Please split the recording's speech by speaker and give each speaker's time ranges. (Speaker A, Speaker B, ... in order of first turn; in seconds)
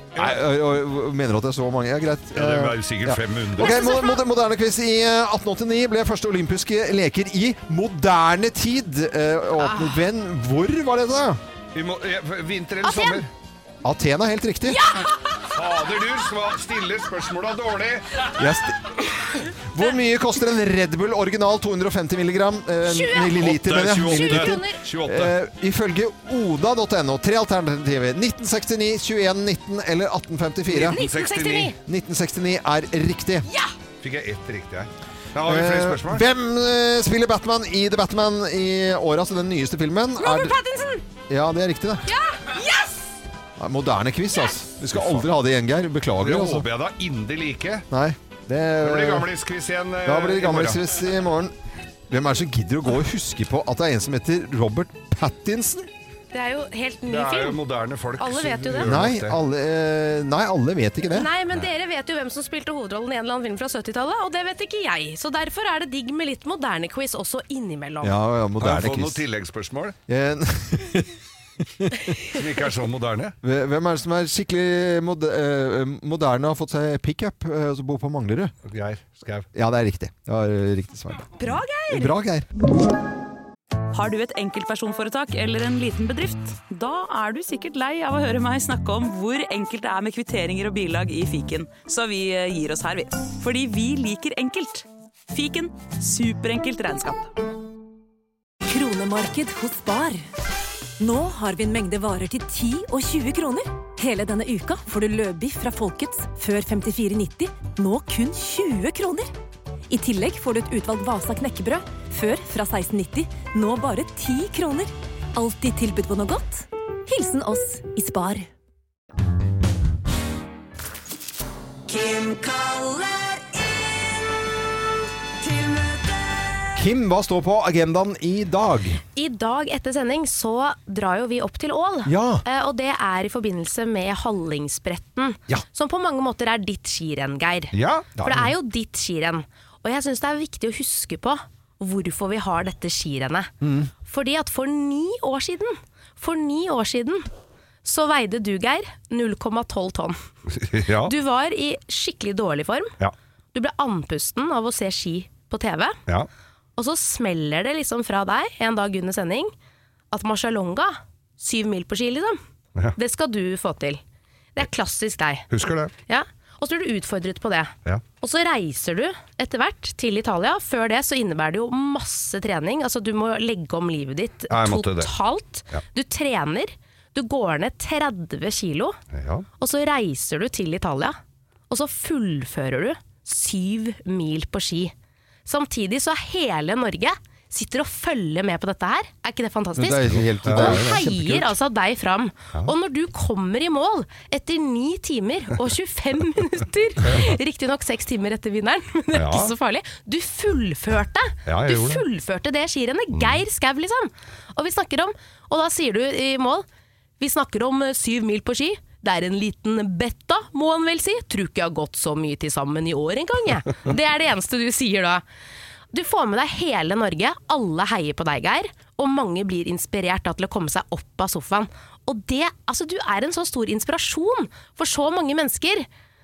Speaker A: 0.2-0.4, 2.4-3.8, 11.8-13.3, 15.5-18.2, 23.4-25.3, 30.7-31.7, 34.0-36.2, 44.9-45.3, 46.2-47.9, 48.8-50.8, 57.1-59.4, 68.6-70.0, 72.3-73.3, 78.7-79.5, 137.7-138.1, 150.6-151.1, 165.5-165.9, 174.5-175.1, 179.1-179.5, 190.4-191.0, 197.1-197.3, 199.1-199.5, 201.5-202.0, 203.2-203.4
Speaker B: 0.2-11.4, 13.8-14.8, 18.4-31.0, 31.9-33.5, 35.4-40.6, 41.3-42.1, 43.6-46.7, 47.9-49.3, 50.0-51.5, 52.1-55.9, 58.8-61.3, 68.0-69.2, 70.1-72.2, 73.4-78.5, 79.5-81.3, 81.9-82.5, 126.8-129.0, 132.1-132.4, 138.2-138.5, 143.6-143.9, 189.8-191.5
Speaker C: 3.6-4.2, 9.6-10.1, 12.8-13.2, 14.7-15.4, 22.8-23.4, 24.1-24.8, 30.8-31.8, 33.5-33.7, 40.2-41.0, 42.1-43.0, 56.3-57.6, 58.2-58.9, 61.1-68.2, 81.4-82.1, 122.2-123.0, 129.2-143.5, 144.1-147.3, 147.8-150.2, 151.0-152.9, 153.5-156.0, 156.8-159.5, 160.1-162.4, 162.9-164.0, 164.6-165.5, 166.1-179.0, 179.6-181.2, 181.7-184.9, 185.5-206.7, 207.2-215.2, 215.9-225.9
Speaker D: 83.9-97.3
Speaker E: 98.7-100.3, 101.0-109.3, 109.9-118.5